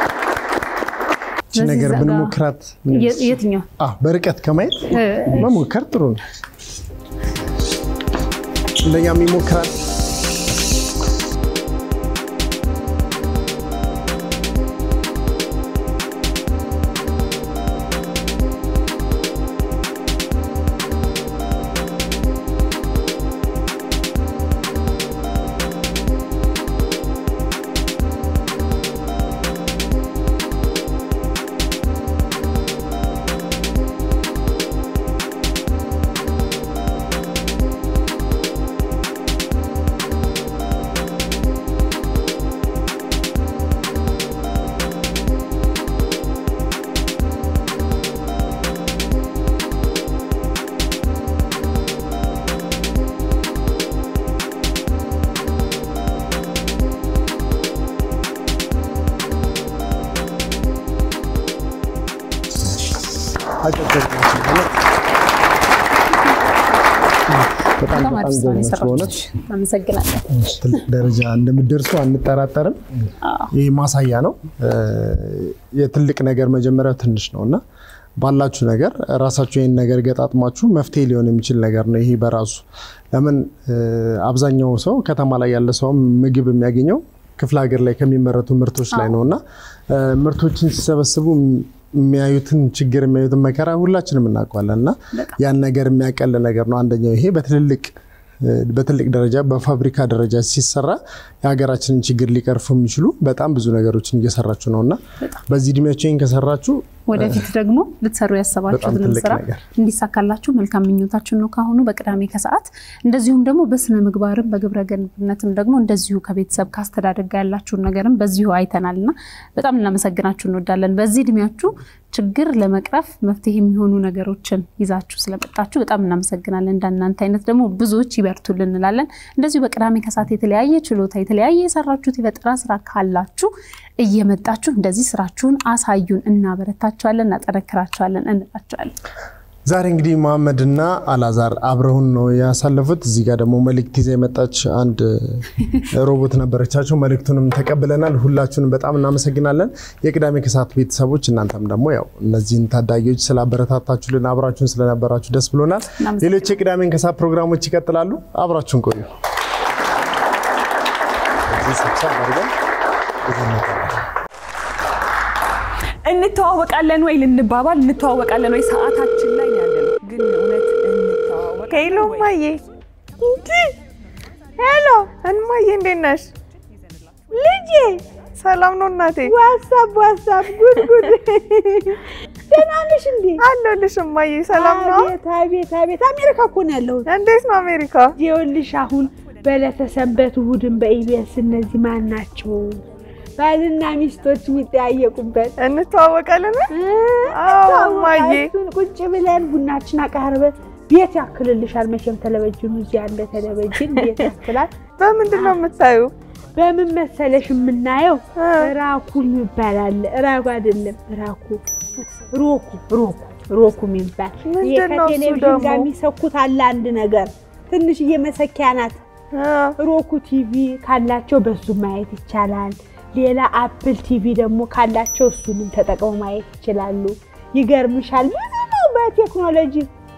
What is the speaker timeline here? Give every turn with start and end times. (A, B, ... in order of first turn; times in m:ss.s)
0:01.5-0:02.4 A
0:01.5-0:06.2 B
0:02.9-0:03.7 A
0:04.9-0:05.6 A
0:08.8-0:09.8 B
1:03.6-1:04.7 B
1:07.3-1:09.1 B
1:07.9-1:10.2 A
1:10.6-1:12.8 B
1:13.2-1:13.5 A
1:13.5-1:17.6 B
1:18.2-1:47.4 B
1:28.9-1:29.2 A
1:47.1-2:18.9 A
1:48.7-1:49.6 B
2:19.7-2:39.1 B
2:36.0-2:36.5 A
2:41.5-2:42.5 B
2:43.2-2:44.0 B
2:46.0-2:52.3 C
2:51.7-2:52.6 D
2:53.2-2:53.8 E
2:54.6-2:55.2 E
2:55.2-2:56.3 D
2:57.3-2:58.0 E
2:58.4-2:59.3 D
2:59.2-3:03.4 E
3:03.4-3:05.1 D
3:04.5-3:07.1 E
3:07.0-3:08.1 D
3:08.2-3:12.8 E
3:13.4-3:15.6 E
3:15.6-3:16.7 D
3:16.7-3:25.7 E
3:17.3-3:18.5 D
3:25.0-3:26.1 D
3:26.5-3:39.0 E
3:28.4-3:28.7 D
3:34.4-3:35.9 D
3:39.3-3:39.8 D
3:39.8-3:49.9 E